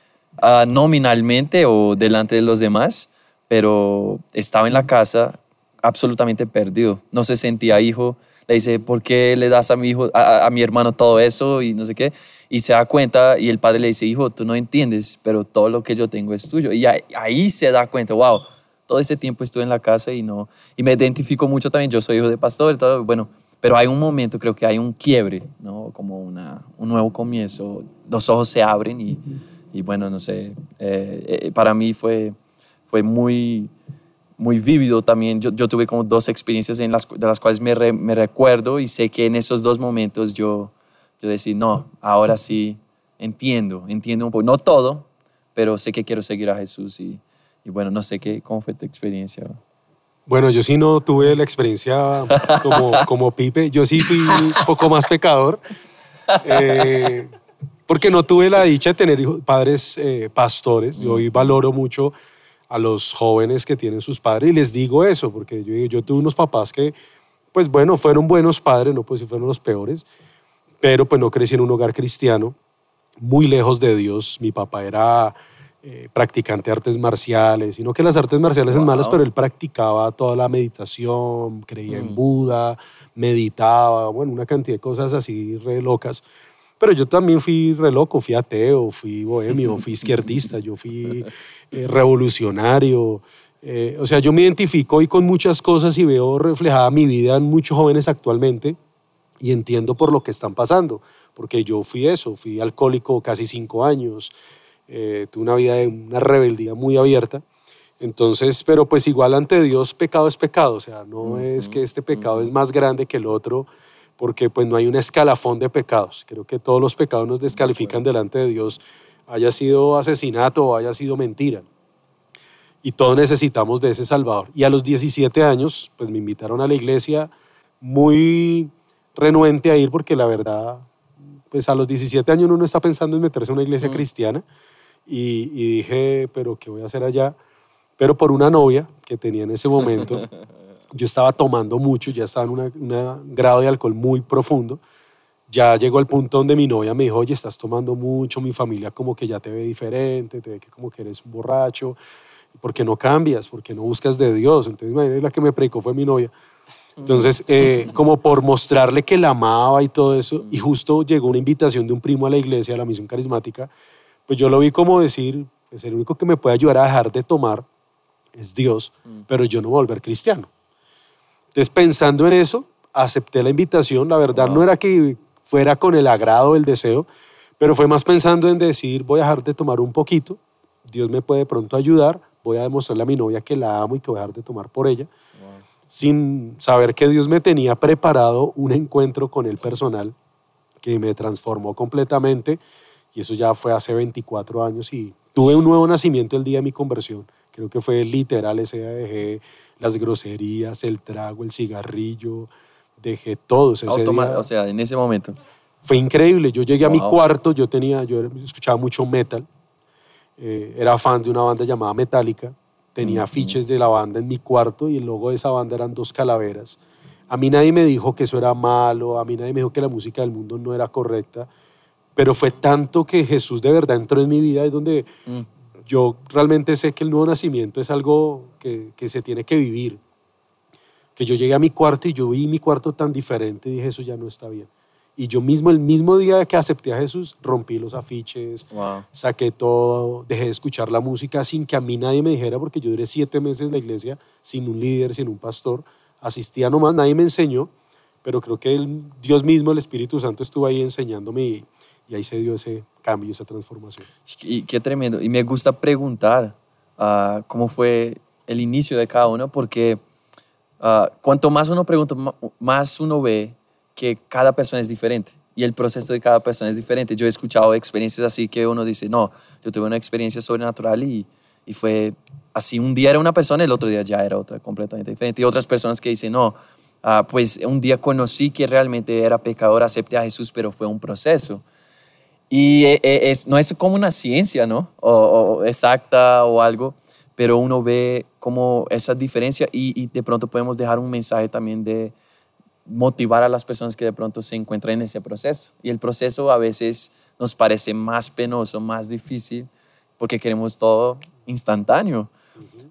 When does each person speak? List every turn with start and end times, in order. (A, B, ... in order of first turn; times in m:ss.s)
0:00.4-0:32.4 A
0:32.9-0:33.7 A
0:34.4-0:49.6 A
0:50.3-0:55.6 B
0:52.4-0:52.9 A
0:56.4-0:57.3 B
0:57.9-1:02.1 B
1:01.0-1:01.5 A
1:02.7-1:06.9 B
1:07.5-1:10.0 B
1:10.8-1:12.5 B
1:13.2-1:26.2 B
1:18.7-1:19.2 A
1:21.9-1:22.2 A
1:26.8-1:38.8 B
1:39.4-1:44.3 B
1:44.9-1:47.4 B
1:48.0-2:01.6 B
1:51.2-1:52.5 A
1:57.6-1:58.0 A
2:02.8-2:10.9 B
2:11.5-2:14.4 B
2:15.1-2:17.4 B
2:18.0-2:20.2 B
2:20.9-2:24.8 B
2:25.5-2:32.0 B
2:32.6-2:36.3 B
2:37.0-2:37.9 A
2:37.0-2:43.7 B
2:44.3-2:47.6 B
2:48.3-2:50.5 B
2:51.5-2:57.0 B
2:54.3-2:54.6 A
2:57.6-3:05.1 B
3:05.4-3:05.6 A
3:05.9-3:10.1 B
3:10.8-3:12.6 B
3:13.1-3:24.5 B
3:23.9-3:25.4 A
3:25.8-3:29.4 B
3:26.8-3:27.2 A
3:30.4-3:36.8 B
3:33.0-3:33.6 A
3:37.3-3:41.5 B
3:42.2-3:45.1 B
3:45.8-3:50.0 B
3:51.2-4:07.7 B
3:58.7-3:59.0 A
4:08.2-4:14.1 B
4:14.2-4:20.0 A
4:20.8-4:41.6 A
4:42.5-4:52.1 A
4:52.8-5:02.3 A